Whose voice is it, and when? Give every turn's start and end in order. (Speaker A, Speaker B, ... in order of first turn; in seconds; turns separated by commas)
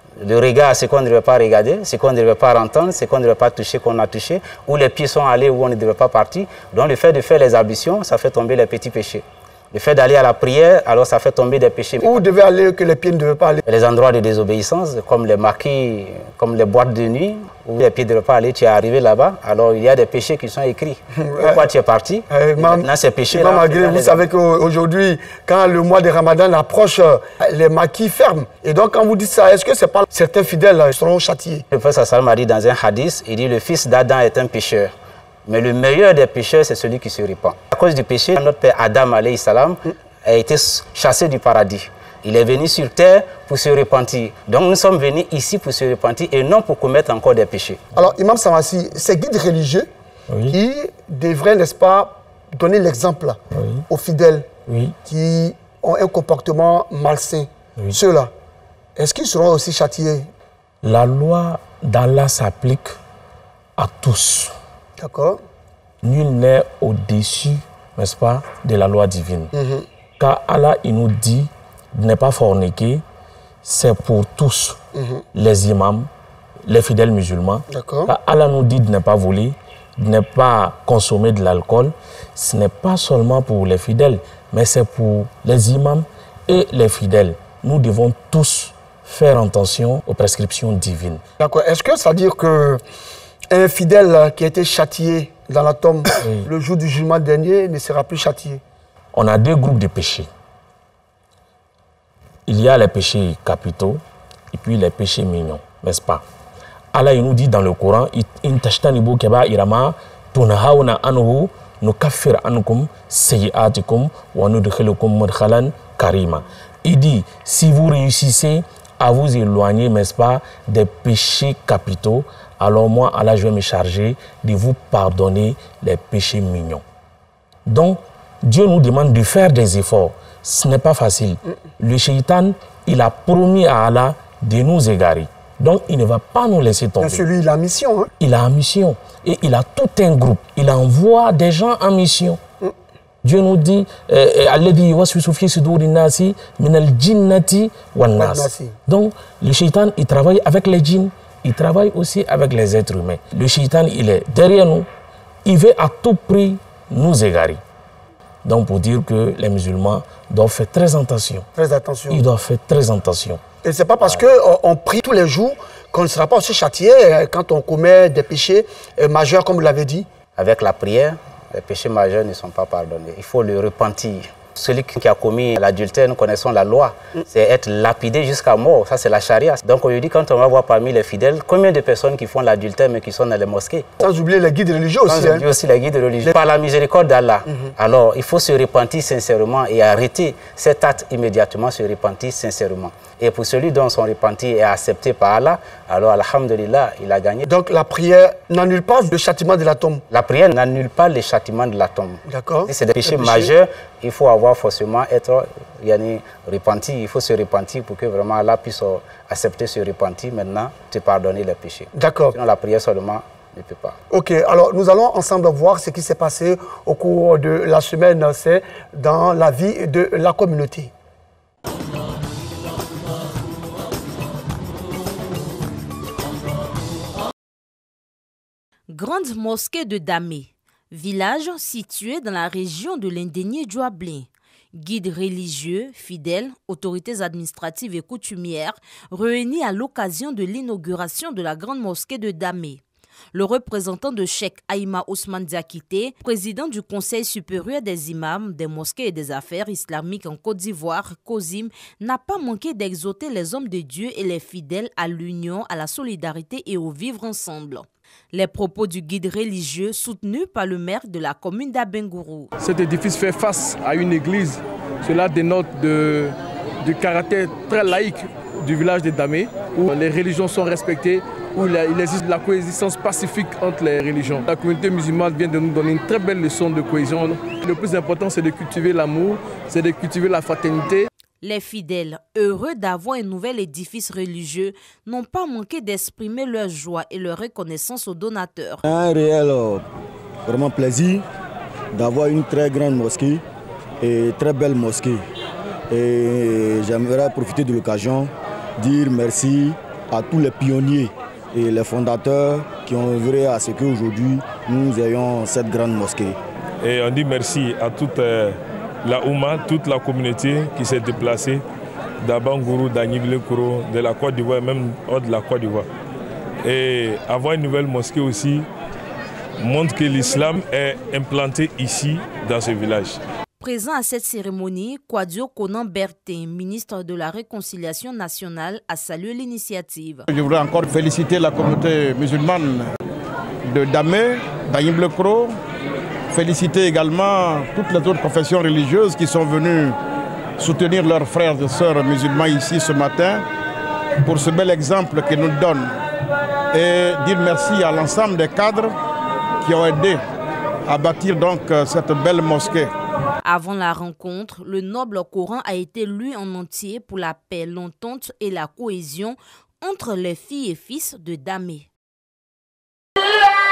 Speaker A: 0.2-12.2, Speaker B: 12.0-13.6, Speaker A: 13.7-24.2, Speaker B: 21.1-21.7, Speaker B: 22.3-31.6, Speaker A: 31.7-34.9, Speaker A: 35.5-47.8, Speaker B: 47.9-49.9, Speaker C: 50.3-50.6, Speaker B: 50.5-54.5, Speaker C: 53.5-53.8, Speaker C: 54.7-54.9, Speaker B: 55.0-58.3, Speaker B: 59.0-60.3, Speaker C: 60.8-62.9, Speaker C: 63.8-64.5, Speaker B: 65.0-65.4, Speaker C: 66.0-69.5, Speaker B: 69.5-69.8, Speaker C: 70.2-73.0, Speaker C: 73.6-74.8, Speaker B: 74.9-75.2, Speaker C: 75.3-76.1, Speaker C: 76.7-91.2, Speaker B: 77.7-78.1, Speaker B: 91.4-92.8, Speaker B: 93.5-98.6, Speaker C: 96.2-96.5, Speaker C: 99.1-100.3, Speaker C: 102.5-104.0, Speaker C: 104.5-106.2, Speaker C: 106.9-126.8, Speaker C: 127.7-137.2, Speaker B: 137.0-138.1, Speaker C: 138.2-142.4, Speaker C: 143.2-154.9, Speaker B: 148.2-148.8, Speaker C: 155.4-157.6, Speaker C: 158.4-161.5, Speaker B: 161.6-162.2, Speaker C: 162.1-163.4, Speaker B: 163.6-170.1, Speaker A: 170.3-184.0, Speaker B: 184.0-185.4, Speaker A: 185.1-197.4, Speaker B: 187.5-187.7, Speaker B: 197.4-200.0, Speaker A: 200.1-214.0, Speaker B: 202.2-203.5, Speaker B: 211.9-212.3, Speaker B: 214.1-220.9, Speaker D: 228.9-242.8, Speaker D: 243.3-262.5, Speaker E: 262.6-281.1, Speaker D: 281.4-288.8, Speaker F: 288.8-289.8, Speaker F: 290.5-291.2, Speaker F: 291.9-293.4, Speaker F: 294.0-295.2, Speaker F: 295.9-306.4, Speaker G: 306.8-311.6, Speaker G: 312.2-315.9, Speaker G: 316.6-318.7, Speaker G: 319.6-323.2, Speaker D: 323.6-330.2, Speaker H: 330.3-332.9, Speaker H: 333.6-335.5, Speaker H: 336.3-340.0, Speaker H: 340.6-343.4, Speaker H: 344.2-346.0, Speaker H: 346.7-349.0, Speaker H: 349.6-350.2, Speaker H: 350.9-352.9, Speaker D: 353.4-361.9